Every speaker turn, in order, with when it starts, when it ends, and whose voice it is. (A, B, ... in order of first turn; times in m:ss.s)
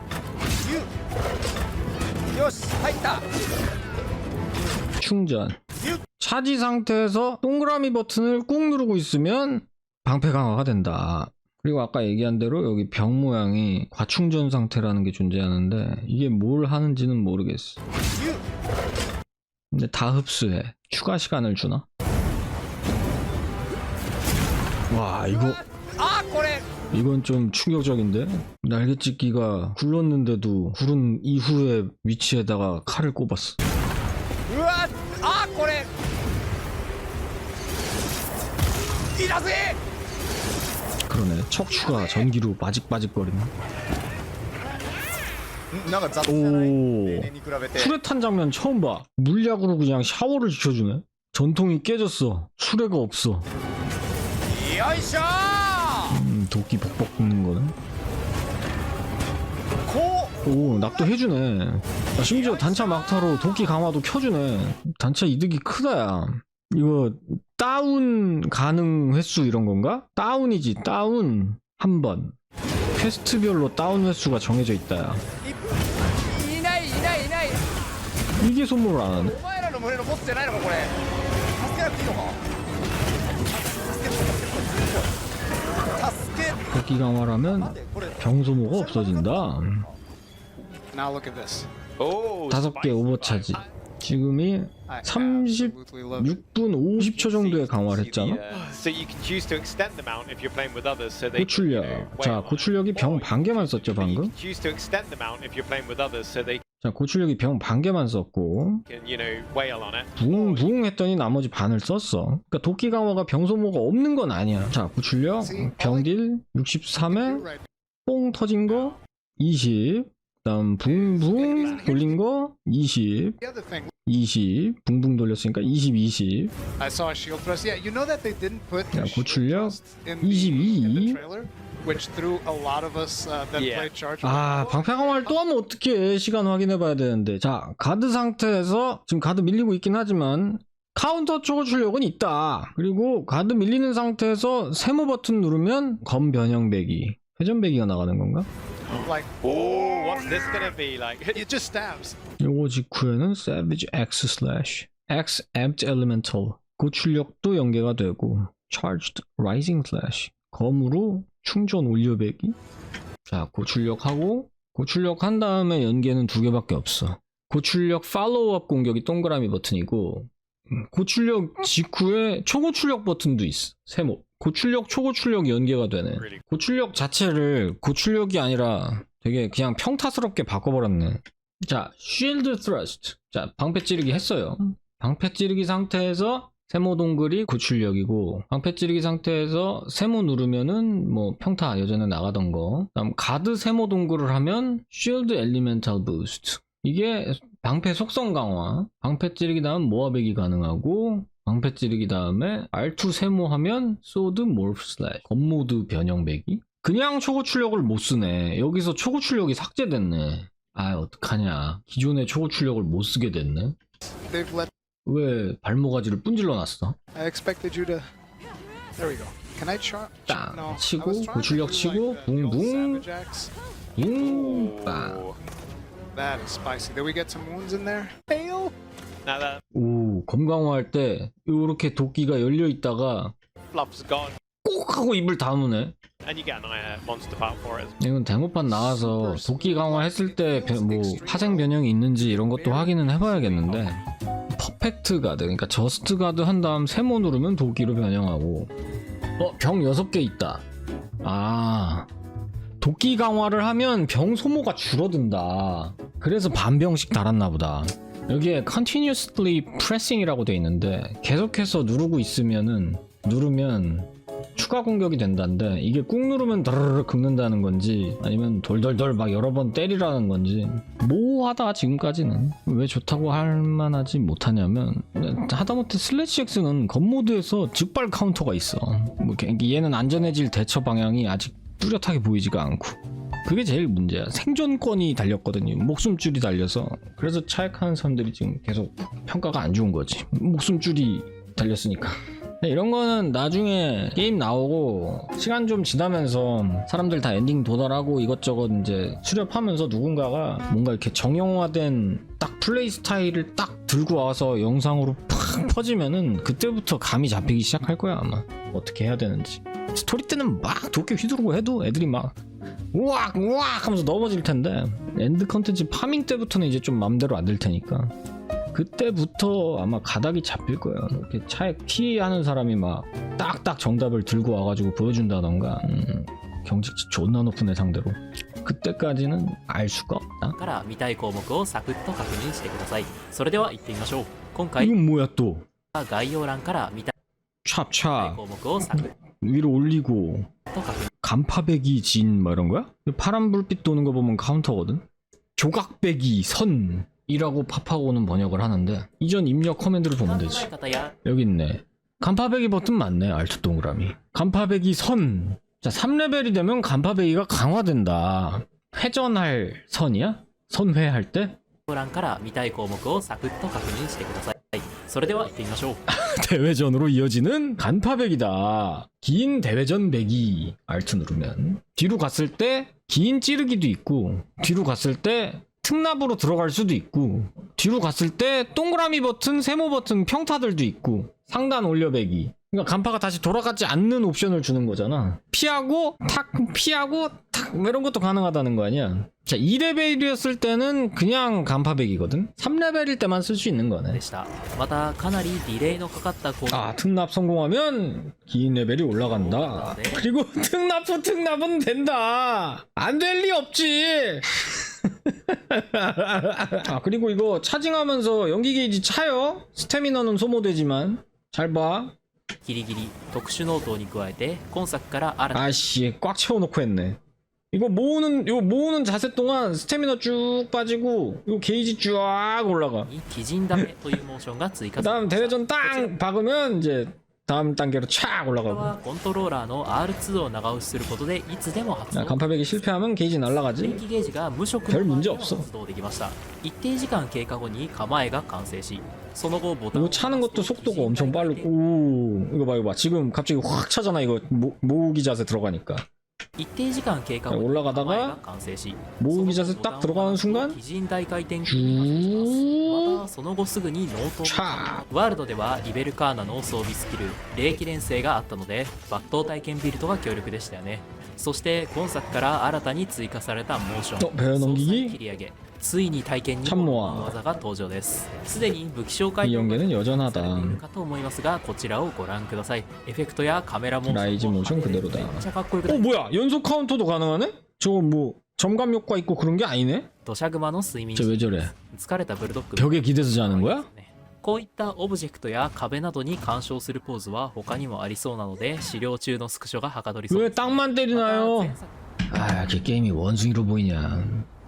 0:00.6-0:00.9 A
0:02.3-0:03.3 A
0:05.0-0:05.6 B
0:06.2-0:17.8 B
0:19.7-0:21.8 B
0:24.9-0:25.6 B
0:25.3-0:26.7 A
0:26.9-0:33.6 B
0:34.4-0:35.9 A
0:39.1-0:39.8 A
0:41.1-0:43.5 B
0:41.8-0:42.3 A
0:45.7-0:48.0 A
0:46.2-0:53.5 B
0:54.4-0:56.2 A
0:56.1-0:57.7 B
0:59.8-1:01.1 A
1:00.4-1:12.3 B
1:02.2-1:03.1 A
1:13.0-1:15.2 B
1:16.2-1:17.6 A
1:18.4-1:19.4 B
1:19.1-1:20.9 A
1:21.6-1:22.4 A
1:23.5-1:25.1 A
1:25.8-1:26.6 A
1:26.7-1:29.8 B
1:27.5-1:29.9 A
1:30.9-1:31.6 A
1:31.1-1:31.6 C
1:32.0-1:33.7 D
1:32.5-1:38.4 B
1:34.9-1:36.4 C
1:35.2-1:35.4 A
1:36.9-1:46.6 D
1:41.3-1:44.3 B
1:46.8-1:48.8 B
1:48.9-1:50.7 D
1:50.2-1:57.5 B
1:55.5-1:56.0 C
1:57.2-1:57.6 C
1:58.0-2:03.4 B
2:00.9-2:02.1 C
2:01.5-2:01.8 D
2:03.4-2:03.9 C
2:04.0-2:06.5 B
2:06.8-2:14.7 C
2:08.9-2:11.2 B
2:13.5-2:13.9 D
2:14.2-2:28.5 B
2:29.0-2:31.5 D
2:29.1-2:29.4 C
2:31.3-2:32.2 C
2:32.4-2:42.6 B
2:43.2-3:33.8 B
2:56.1-2:56.4 D
3:34.3-3:34.7 C
3:35.0-3:37.0 B
3:37.1-3:38.1 C
3:38.9-3:43.5 C
3:40.2-3:43.1 B
3:42.4-3:42.9 A
3:44.0-3:45.2 B
3:44.0-3:45.4 D
3:46.1-3:48.7 C
3:49.2-3:49.6 D
3:49.7-3:53.3 B
3:53.7-3:54.4 D
3:54.6-3:56.0 B
3:56.2-3:58.0 D
3:58.0-4:04.0 B
3:58.7-4:01.7 C
4:02.3-4:02.9 C
4:03.6-4:04.0 D
4:04.5-4:08.7 B
4:09.4-4:10.6 B
4:11.2-4:12.1 B
4:12.8-5:12.4 B
5:12.9-5:18.1 B
5:18.7-5:30.6 B
5:30.5-5:34.9 E
5:34.8-5:35.7 B
5:35.9-5:37.1 E
5:37.6-5:40.5 B
5:38.2-5:39.1 E
5:40.7-5:41.1 E
5:41.2-5:45.0 B
5:45.6-5:50.7 B
5:50.1-5:51.1 E
5:51.2-6:01.6 B
6:01.9-6:06.0 E
6:06.1-6:34.2 B
6:34.1-6:36.9 E
6:36.7-6:52.1 B
6:39.2-6:40.2 E
6:52.6-6:55.7 E
6:55.5-6:57.2 B
6:57.7-7:03.1 B
7:03.0-7:06.1 E
7:05.0-7:08.9 B
7:08.6-7:12.8 E
7:12.1-7:14.0 B
7:13.6-7:21.7 E
7:14.8-7:15.7 B
7:19.9-7:26.1 B
7:26.6-7:56.2 E
7:27.5-7:28.4 B
7:29.2-7:30.8 B
7:31.6-7:33.3 B
7:34.4-7:35.0 B
7:44.2-7:45.2 B
7:46.6-7:47.3 B
7:49.4-7:50.8 B
7:54.1-8:00.1 B
8:00.2-8:11.9 E
8:01.1-8:01.7 B
8:02.8-8:03.8 B
8:10.3-8:11.8 B
8:12.3-8:14.5 B